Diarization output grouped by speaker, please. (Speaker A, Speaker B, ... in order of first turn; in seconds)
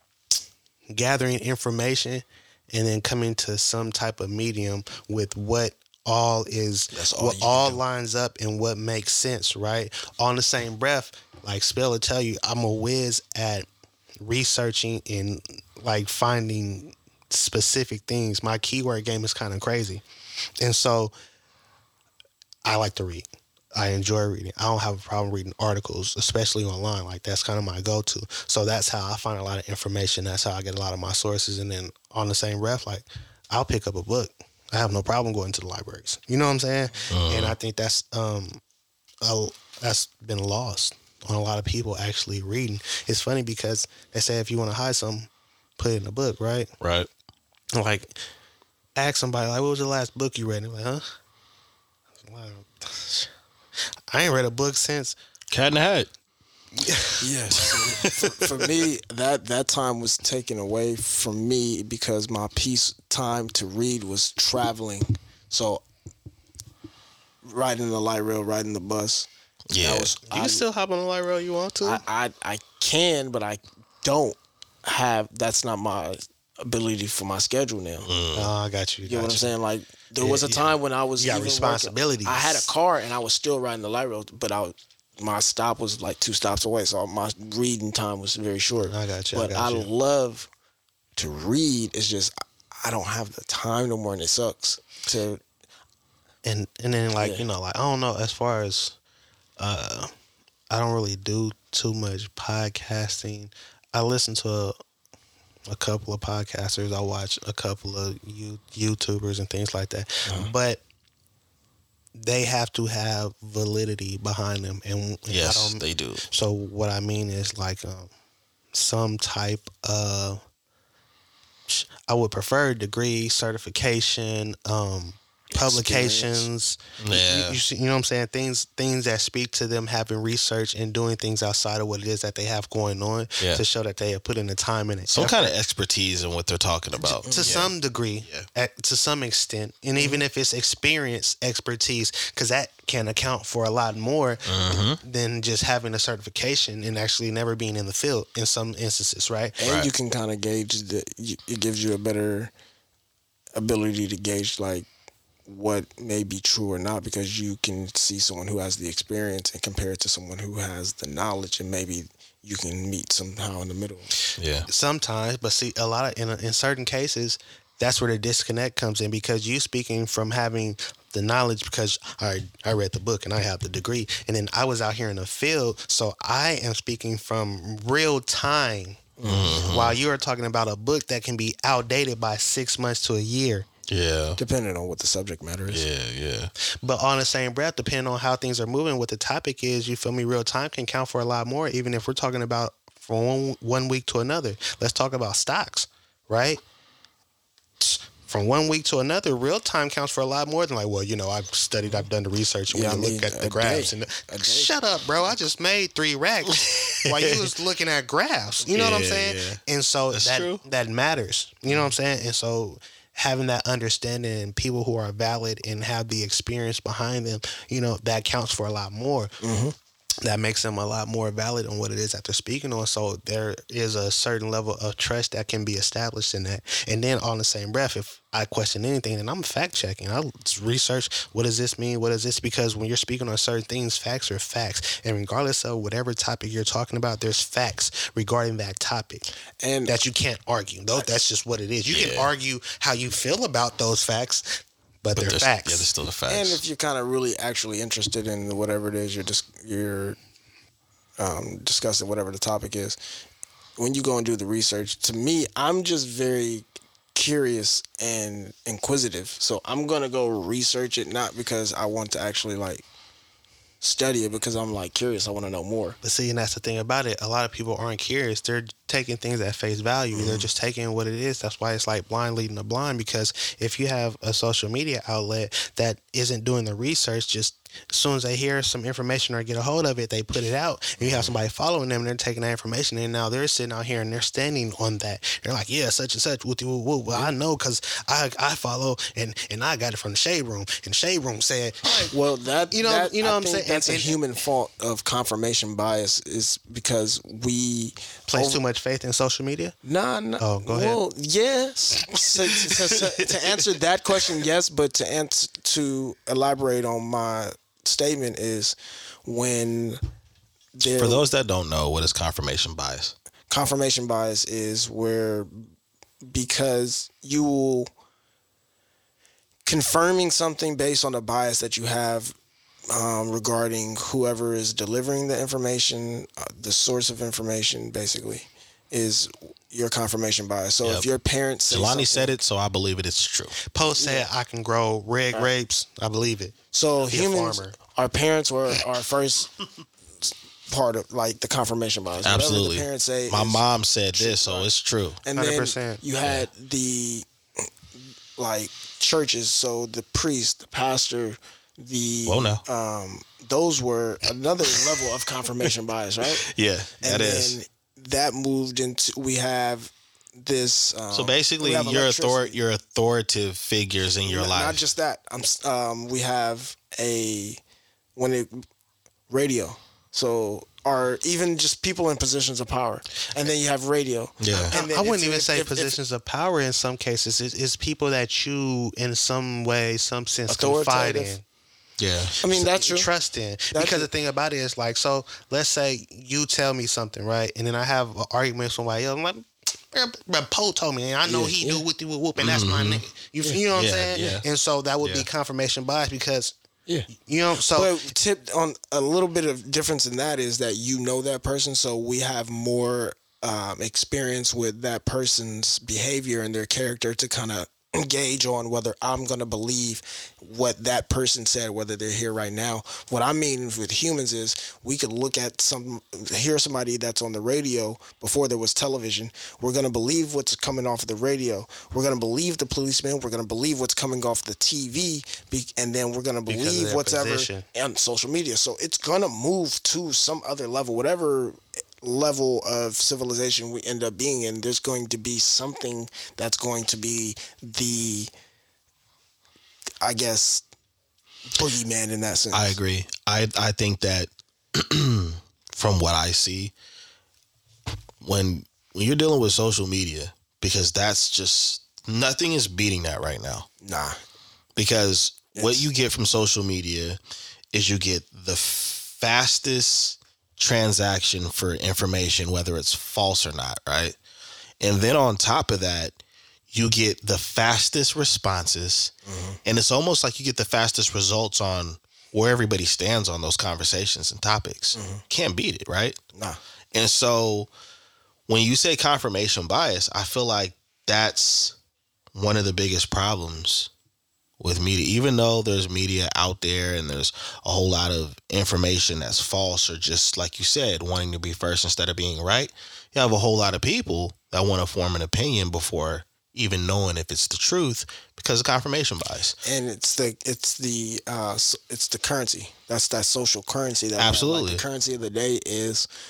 Speaker A: 0.9-13.7, 14.2-20.0, 20.6-21.1, 22.6-38.6, 39.2-46.7, 47.8-48.2, 49.0-51.1, 52.2-53.3, 54.1-55.2, 56.7-57.3, 70.3-72.0, 78.4-79.5, 80.2-82.7, 88.8-89.9, 96.5-99.0, 99.6-100.1, 100.7-104.8, 105.7-110.8, 112.2-118.1, 118.7-120.4, 121.7-135.5, 137.3-144.5, 145.0-149.6, 164.7-179.1, 179.7-183.7, 186.8-196.6, 197.8-219.3, 220.2-239.3, 239.9-245.9, 266.0-292.1, 292.7-294.2, 298.3-299.8, 300.4-301.0, 333.6-336.6, 337.1-337.8, 345.4-346.0, 374.7-381.4, 382.5-396.6, 397.1-398.0, 426.5-427.6
Speaker B: 6.9-7.8, 57.2-65.8, 67.4-69.3, 69.8-70.6, 71.8-78.1, 79.0-90.5, 91.2-95.4, 125.5-126.5, 137.0-137.6, 140.0-140.2, 149.6-152.5, 153.6-154.9, 155.5-164.1, 179.2-179.6, 184.4-185.8, 202.7-204.7, 219.4-219.8, 239.6-240.0, 246.3-250.2, 251.2-253.0, 253.8-262.9, 263.8-266.0, 270.1-270.5, 292.1-298.6, 299.8-310.0, 310.8-311.2, 313.5-315.6, 316.2-317.9, 319.7-322.4, 322.9-332.4, 333.9-334.3, 336.7-339.5, 340.2-344.7, 345.2-347.3, 347.9-356.5, 357.0-362.6, 364.3-367.6, 368.2-368.6, 369.3-375.9, 380.5-381.3, 382.4-383.1, 383.7-384.1, 391.2-391.9, 397.7-438.3, 440.0-440.6, 441.6-442.8, 453.8-454.2, 455.5-455.9, 469.3-469.6, 474.9-475.2, 476.3-476.6, 499.6-506.1
Speaker C: 37.1-37.5, 46.8-47.1, 55.5-56.1, 69.7-70.1, 78.0-78.5, 115.3-116.2, 127.0-127.6, 135.1-137.7, 144.5-145.0, 149.6-149.9, 164.4-164.7, 179.2-180.0, 183.9-184.4, 185.7-186.5, 206.5-207.5, 208.7-209.6, 210.1-210.6, 241.9-242.3, 245.2-246.6, 303.2-303.5, 310.9-313.1, 331.7-333.6, 342.2-345.2, 352.3-352.6, 356.4-357.6, 361.1-364.8, 374.4-374.8, 382.0-382.4, 392.4-393.1, 393.8-394.4, 395.0-395.3, 442.5-446.7, 448.2-453.7, 454.8-457.2, 457.7-464.2, 464.8-466.2, 466.7-469.1, 469.7-476.2, 476.9-477.7, 478.5-481.8, 482.4-483.9, 484.6-499.6, 504.2-504.8